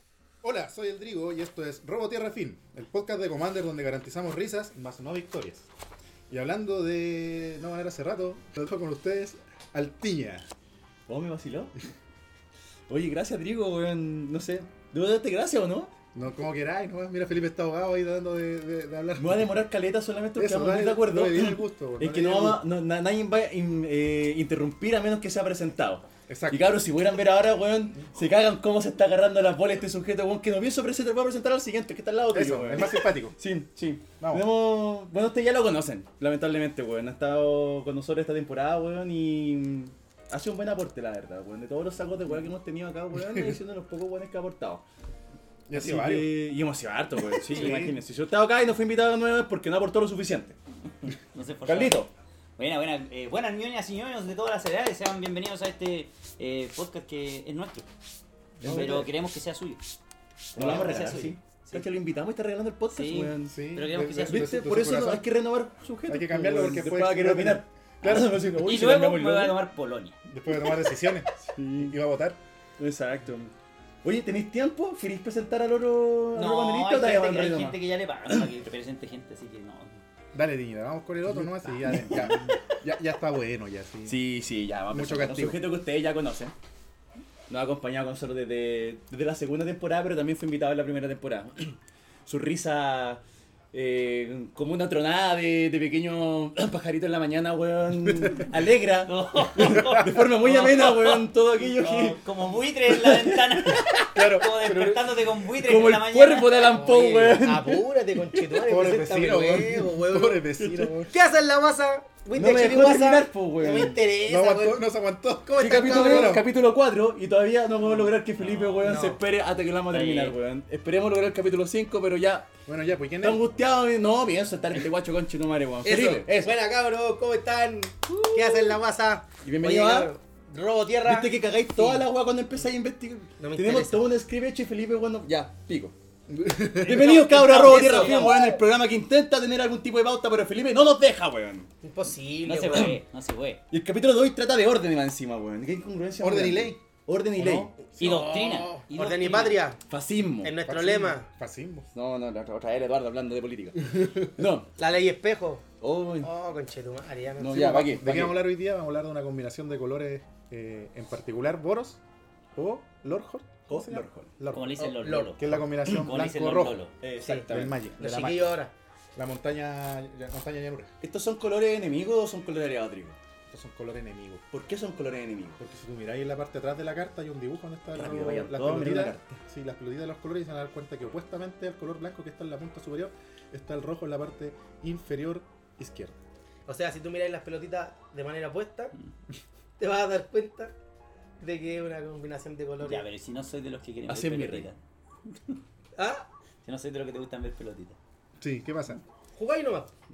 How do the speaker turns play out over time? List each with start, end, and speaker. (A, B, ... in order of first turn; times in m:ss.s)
0:00.4-0:05.7 A
0:06.3-0:10.5 A
0:11.1-0:11.8 B
0:12.9-0:15.9 B
0:16.1-0:19.4 A
0:19.2-0:44.8 B
0:20.4-0:22.6 A
0:26.3-0:26.6 A
0:32.3-0:33.4 A
0:43.2-0:43.6 A
0:45.7-0:46.3 A
0:45.7-0:50.6 B
0:47.2-0:48.0 A
0:51.3-0:52.0 C
0:51.6-0:52.1 B
0:52.6-0:57.9 C
0:58.6-0:59.1 A
0:58.6-0:59.1 B
0:58.6-1:00.0 C
1:00.5-1:01.8 C
1:00.5-1:03.6 B
1:00.6-1:01.3 D
1:02.9-1:04.5 C
1:03.4-1:05.2 A
1:04.2-1:09.6 B
1:06.1-1:08.4 A
1:08.1-1:10.2 C
1:10.3-1:12.4 A
1:11.4-1:12.0 B
1:12.8-1:13.5 B
1:14.0-1:17.8 B
1:16.3-1:20.0 C
1:20.3-1:24.2 A
1:21.4-1:22.5 B
1:22.0-1:22.6 C
1:24.0-1:26.5 B
1:24.9-1:25.6 A
1:27.5-1:33.2 B
1:33.7-1:42.2 B
1:38.2-1:38.4 A
1:39.1-1:46.7 C
1:42.9-1:44.1 B
1:44.1-1:45.0 A
1:45.5-1:48.5 B
1:46.7-1:50.4 D
1:48.6-1:51.1 A
1:50.6-1:50.9 B
1:51.0-1:54.8 D
1:52.3-1:54.0 B
1:54.2-1:56.5 A
1:55.5-1:56.4 D
1:55.6-2:02.5 B
1:57.9-1:58.9 C
1:58.8-1:59.2 D
1:59.9-2:00.4 C
2:02.6-2:03.5 A
2:03.2-2:06.5 B
2:05.8-2:12.0 D
2:08.1-2:08.8 B
2:09.4-2:10.1 B
2:11.0-2:15.9 B
2:13.4-2:14.1 D
2:16.3-2:17.3 A
2:16.8-2:21.7 B
2:16.8-2:18.6 D
2:17.8-2:18.3 C
2:21.8-2:23.0 D
2:22.4-2:23.6 C
2:22.7-2:23.0 B
2:23.7-2:27.7 B
2:26.2-2:26.8 A
2:27.4-2:28.5 A
2:28.0-2:29.6 C
2:28.0-2:29.8 D
2:29.9-2:30.5 B
2:30.4-2:31.2 D
2:30.6-2:31.9 A
2:31.9-2:34.7 B
2:34.8-2:35.6 D
2:35.8-2:36.3 B
2:36.2-2:38.0 D
2:37.4-2:38.4 B
2:37.5-2:42.0 A
2:42.6-2:46.8 A
2:43.7-2:44.3 B
2:44.5-2:46.9 C
2:44.8-2:45.4 D
2:47.0-2:47.8 B
2:47.2-2:48.7 D
2:47.5-2:48.6 A
2:49.2-2:50.9 A
2:51.0-2:53.2 B
2:53.5-2:54.4 A
2:54.5-2:55.6 B
2:55.6-3:06.2 A
2:57.9-2:59.4 B
3:06.7-3:08.9 D
3:09.8-3:10.7 D
3:11.4-3:13.0 D
3:12.8-3:15.6 C
3:14.1-3:14.7 B
3:16.0-3:16.3 D
3:16.6-3:18.0 C
3:18.4-3:19.0 A
3:19.3-3:19.9 D